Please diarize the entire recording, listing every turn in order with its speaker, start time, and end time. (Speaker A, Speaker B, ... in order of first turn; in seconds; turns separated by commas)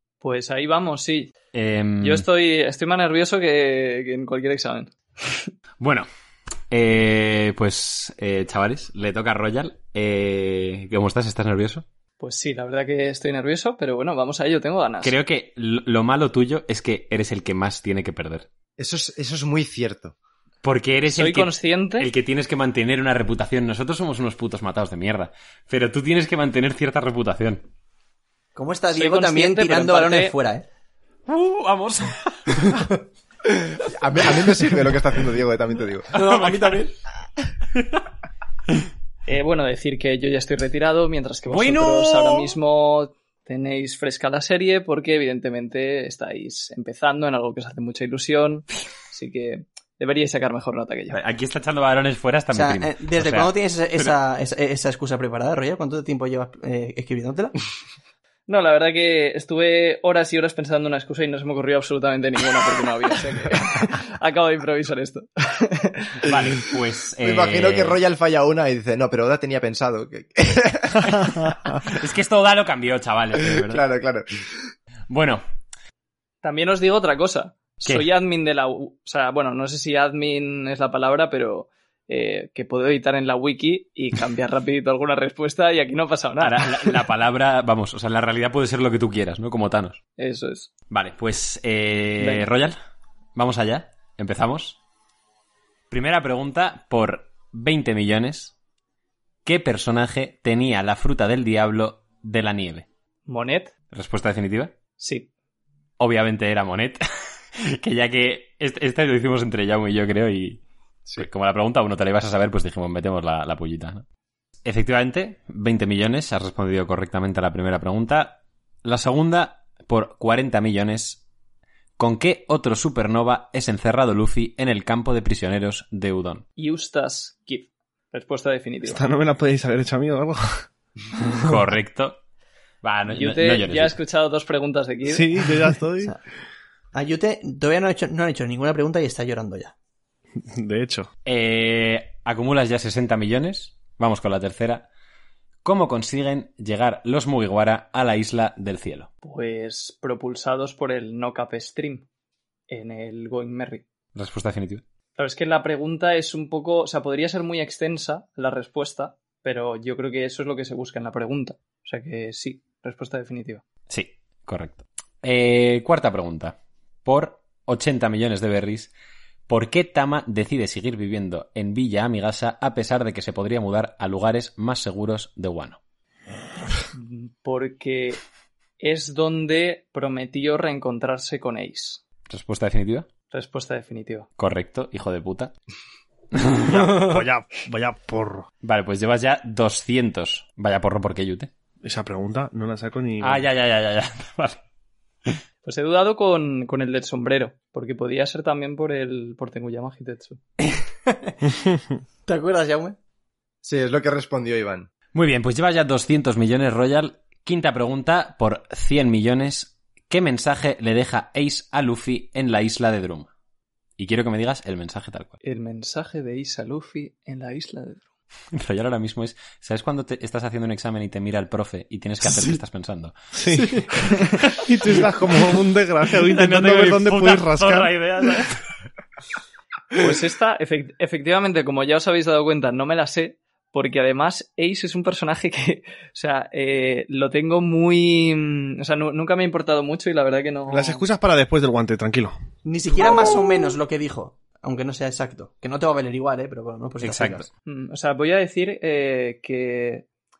Speaker A: 0.2-1.3, Speaker B: 1.5-2.3, Speaker A: 2.0-5.5, Speaker B: 5.8-6.1, Speaker B: 6.7-11.9, Speaker A: 12.2-15.2, Speaker B: 15.0-18.5, Speaker C: 18.8-20.2, Speaker B: 20.6-27.7, Speaker A: 21.1-22.1, Speaker D: 28.6-30.7, Speaker A: 28.9-30.4, Speaker B: 31.3-32.8, Speaker C: 33.8-36.1, Speaker D: 36.1-36.9, Speaker B: 36.1-36.9, Speaker B: 37.7-38.0, Speaker A: 39.3-51.2, Speaker B: 41.5-42.6, Speaker B: 51.1-54.1, Speaker D: 52.5-57.6, Speaker A: 58.5-66.2, Speaker B: 66.2-68.0, Speaker C: 67.2-71.5, Speaker B: 71.1-73.8, Speaker C: 73.5-74.3, Speaker B: 75.1-75.4, Speaker A: 76.4-87.0, Speaker B: 86.4-90.0, Speaker A: 90.2-90.7, Speaker B: 90.9-92.8, Speaker A: 92.2-92.5, Speaker B: 93.3-94.8, Speaker B: 95.9-98.5, Speaker B: 99.5-102.9, Speaker A: 103.3-103.8, Speaker B: 103.9-104.8, Speaker A: 105.0-105.3, Speaker B: 106.0-107.0, Speaker B: 107.5-110.6, Speaker B: 111.2-114.0, Speaker B: 114.7-121.2, Speaker B: 122.0-126.4, Speaker A: 126.6-129.0, Speaker E: 128.8-130.7, Speaker B: 131.4-132.2, Speaker B: 132.8-134.0, Speaker A: 133.1-135.3, Speaker E: 135.1-136.2, Speaker D: 136.9-139.7, Speaker E: 140.4-141.1, Speaker B: 141.2-144.9, Speaker B: 145.6-149.1, Speaker A: 149.2-152.1, Speaker A: 152.7-153.8, Speaker B: 154.2-154.8, Speaker A: 155.2-163.6, Speaker B: 163.9-168.9, Speaker B: 169.5-175.8, Speaker A: 176.9-178.2, Speaker A: 178.8-182.0, Speaker B: 182.3-183.1, Speaker A: 183.3-184.3, Speaker B: 184.4-185.5, Speaker B: 186.3-187.3, Speaker E: 186.6-188.5, Speaker B: 188.6-191.5, Speaker E: 191.8-193.4, Speaker B: 193.2-194.6, Speaker A: 195.6-200.4, Speaker D: 200.6-201.4, Speaker D: 202.3-203.0, Speaker C: 203.6-204.9, Speaker B: 205.1-213.3, Speaker B: 214.0-215.3, Speaker A: 215.4-218.1, Speaker B: 218.5-223.1, Speaker E: 223.4-227.9, Speaker D: 223.5-224.1, Speaker B: 226.2-228.7, Speaker A: 230.0-241.0, Speaker E: 240.7-242.3, Speaker D: 242.7-247.5, Speaker B: 247.0-247.5, Speaker A: 247.7-250.1